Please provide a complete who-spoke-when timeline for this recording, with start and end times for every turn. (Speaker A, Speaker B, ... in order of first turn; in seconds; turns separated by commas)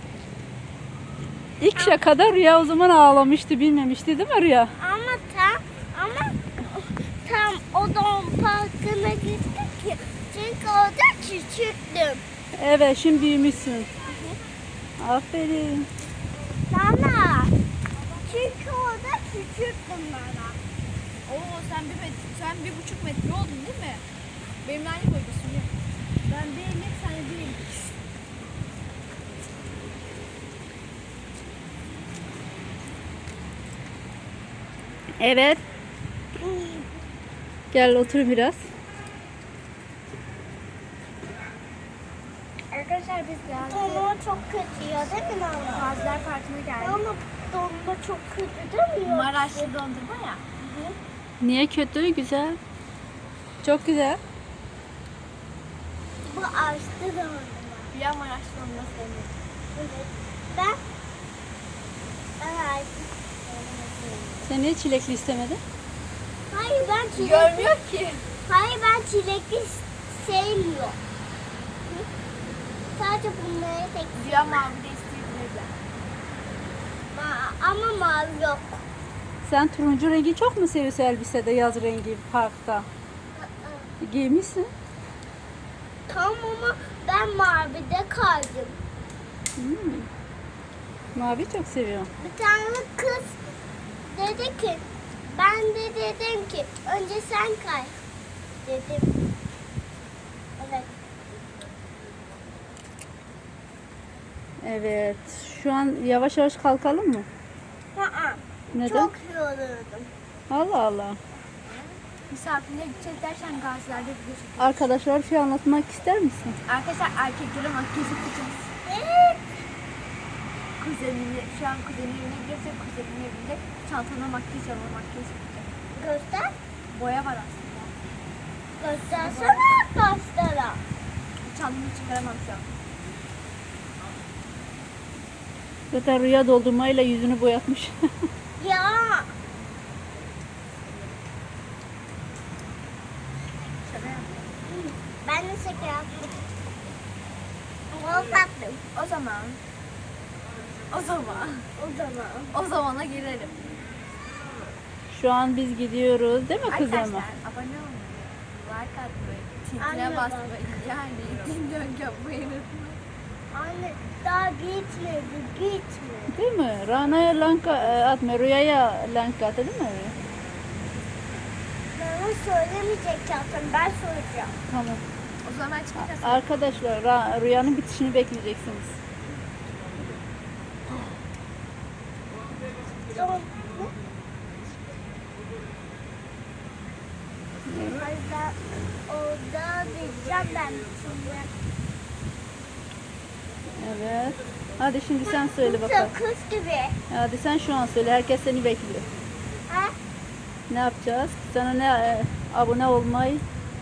Speaker A: 1.6-4.7, Speaker B: 1.8-2.0, Speaker B: 4.8-12.2, Speaker A: 12.6-13.9, Speaker B: 14.0-14.4, Speaker A: 15.0-15.9, Speaker B: 16.7-17.5, Speaker C: 18.0-18.3, Speaker B: 18.2-20.6, Speaker C: 21.3-24.0, Speaker C: 24.6-25.7, Speaker C: 26.2-27.9, Speaker A: 35.2-35.6, Speaker B: 36.4-36.9, Speaker A: 37.7-38.7, Speaker B: 42.7-45.9, Speaker C: 43.4-44.1, Speaker C: 45.7-47.0, Speaker B: 46.8-49.7, Speaker C: 49.0-50.4, Speaker B: 50.6-51.0, Speaker A: 51.4-52.6, Speaker A: 53.6-54.2, Speaker B: 56.2-57.9, Speaker C: 57.9-59.3, Speaker B: 59.7-60.8, Speaker B: 62.4-64.5, Speaker A: 64.5-65.6, Speaker B: 66.5-67.7, Speaker C: 67.2-68.2, Speaker B: 68.5-71.0, Speaker B: 72.9-74.6, Speaker C: 74.2-75.8, Speaker B: 77.1-78.8, Speaker A: 79.4-82.9, Speaker B: 83.3-83.9, Speaker A: 84.0-84.7, Speaker B: 86.1-88.8, Speaker A: 89.6-90.1, Speaker A: 91.2-92.1, Speaker B: 92.2-93.4, Speaker B: 94.0-98.0, Speaker B: 98.6-99.1, Speaker B: 100.6-100.9, Speaker A: 104.6-107.3, Speaker B: 108.0-110.1, Speaker A: 108.7-109.1, Speaker A: 110.5-111.2, Speaker B: 111.6-112.0, Speaker C: 112.3-114.9, Speaker A: 114.6-116.6, Speaker C: 116.7-118.7, Speaker B: 118.8-119.5, Speaker C: 120.8-125.7, Speaker B: 126.0-126.5, Speaker C: 126.9-127.9, Speaker B: 128.8-130.8, Speaker C: 129.2-129.8, Speaker C: 131.4-132.7, Speaker A: 135.9-138.0, Speaker B: 138.6-139.3, Speaker C: 143.8-144.5, Speaker B: 144.7-146.2, Speaker B: 147.9-148.8, Speaker C: 148.9-149.6, Speaker C: 150.9-151.7, Speaker B: 151.8-152.5, Speaker C: 152.5-153.6, Speaker A: 155.1-157.2, Speaker C: 156.7-163.0, Speaker B: 159.8-160.5, Speaker B: 163.5-166.3, Speaker A: 166.3-170.2, Speaker B: 171.9-174.6, Speaker A: 174.7-175.0, Speaker C: 175.4-176.6, Speaker A: 176.0-179.0, Speaker B: 183.1-183.9, Speaker A: 187.7-188.0, Speaker B: 187.7-191.5, Speaker A: 193.8-196.2, Speaker B: 195.2-196.9, Speaker A: 197.1-199.1, Speaker B: 199.7-199.9, Speaker A: 200.7-203.4